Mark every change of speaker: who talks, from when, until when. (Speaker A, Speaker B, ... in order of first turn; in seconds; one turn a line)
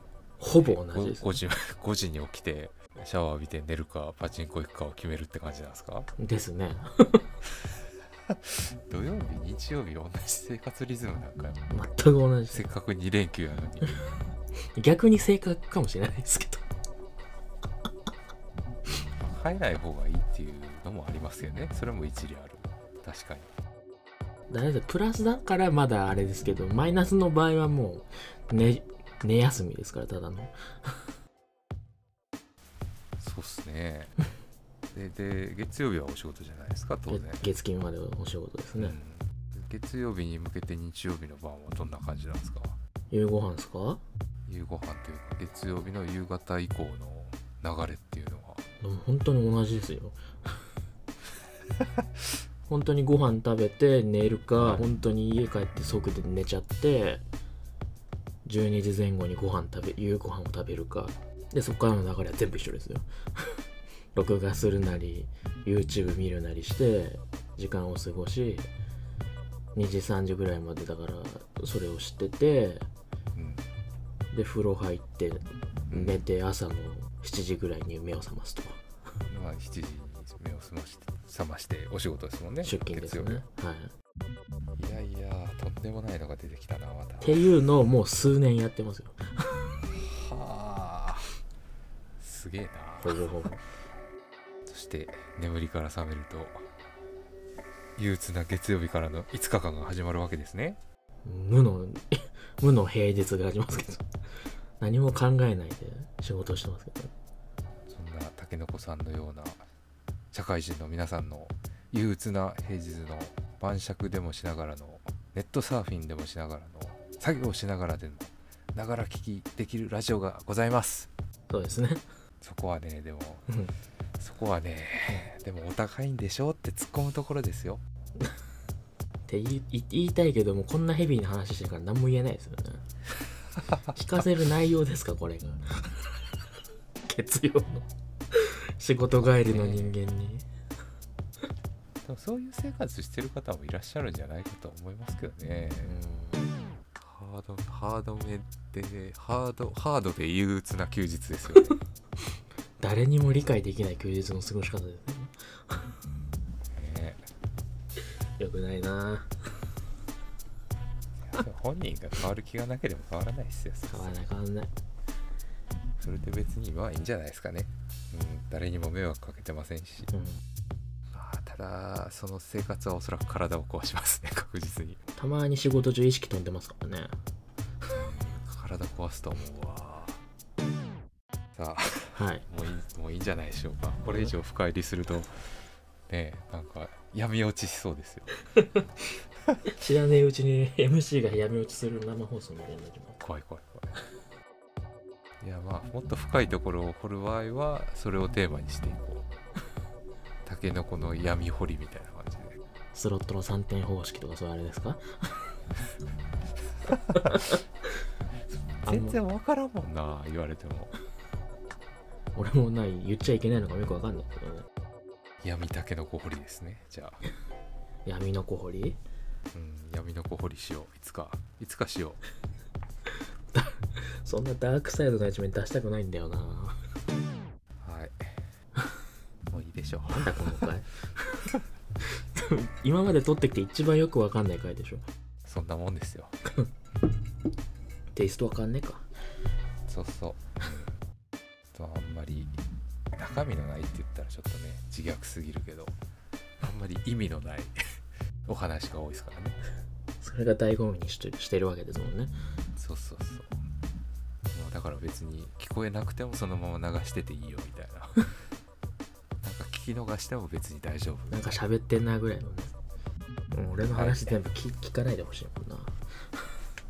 Speaker A: 0.4-1.3
Speaker B: 0.6-6.1
Speaker A: 6.2-7.2
Speaker B: 8.3-11.7
Speaker A: 11.7-12.6
Speaker B: 12.5-14.0
Speaker A: 14.8-16.6
Speaker B: 19.2-23.5
Speaker A: 24.5-31.0
Speaker B: 33.2-34.1
Speaker B: 34.9-37.5
Speaker A: 37.1-39.0
Speaker B: 38.8-42.8
Speaker A: 43.1-44.0
Speaker B: 44.5-48.6
Speaker A: 48.8-50.2
Speaker A: 52.7-57.2
Speaker B: 54.6-54.9
Speaker A: 58.5-63.6
Speaker A: 64.1-68.7
Speaker A: 69.8-72.9
Speaker B: 73.3-73.7
Speaker A: 74.3-78.8
Speaker B: 75.9-76.2
Speaker B: 79.3-83.4
Speaker A: 82.6-83.9
Speaker B: 84.8-87.4
Speaker A: 87.2-89.7
Speaker B: 89.9-91.3
Speaker B: 92.2-93.3
Speaker A: 93.0-93.6
Speaker B: 94.7-96.6
Speaker B: 98.0-100.8
Speaker A: 101.2-104.0
Speaker A: 104.8-107.1
Speaker B: 107.9-109.6
Speaker B: 110.3-121.1
Speaker A: 121.5-122.0
Speaker B: 122.4-123.5
Speaker B: 124.2-127.8
Speaker A: 129.3-132.9
Speaker A: 133.9-136.0
Speaker A: 137.1-140.5
Speaker B: 139.4-140.0
Speaker B: 142.0-145.9
Speaker A: 145.8-146.5
Speaker B: 147.0-151.8
Speaker A: 152.8-155.3
Speaker B: 156.7-157.3
Speaker A: 158.4-159.3
Speaker B: 161.2-164.2
Speaker A: 163.9-164.7
Speaker B: 166.0-170.1
Speaker A: 170.1-170.4
Speaker B: 171.1-175.0
Speaker A: 175.2-177.1
Speaker B: 177.9-180.2
Speaker B: 181.6-185.3
Speaker A: 182.2-182.4
Speaker A: 184.1-184.3
Speaker B: 186.1-188.3
Speaker A: 188.6-188.8
Speaker A: 189.7-193.2
Speaker B: 193.2-193.9
Speaker B: 195.4-199.2
Speaker B: 200.4-202.6
Speaker A: 202.9-205.4
Speaker A: 207.1-207.6
Speaker B: 208.8-210.9
Speaker A: 208.9-209.2
Speaker A: 212.3-214.7
Speaker B: 215.4-217.2
Speaker A: 218.1-219.0
Speaker B: 219.5-222.2
Speaker A: 223.5-226.8
Speaker B: 227.8-228.4
Speaker B: 229.5-230.7
Speaker A: 230.1-231.5
Speaker A: 232.2-235.0
Speaker B: 235.4-236.4
Speaker A: 238.2-239.1
Speaker B: 239.9-240.9
Speaker B: 241.7-242.6
Speaker B: 243.2-245.9
Speaker B: 246.6-247.8
Speaker B: 248.4-249.6
Speaker A: 250.2-252.3
Speaker B: 252.8-253.6
Speaker B: 254.5-258.2
Speaker B: 259.4-261.6
Speaker A: 261.3-262.7
Speaker A: 263.5-265.9
Speaker B: 263.9-264.4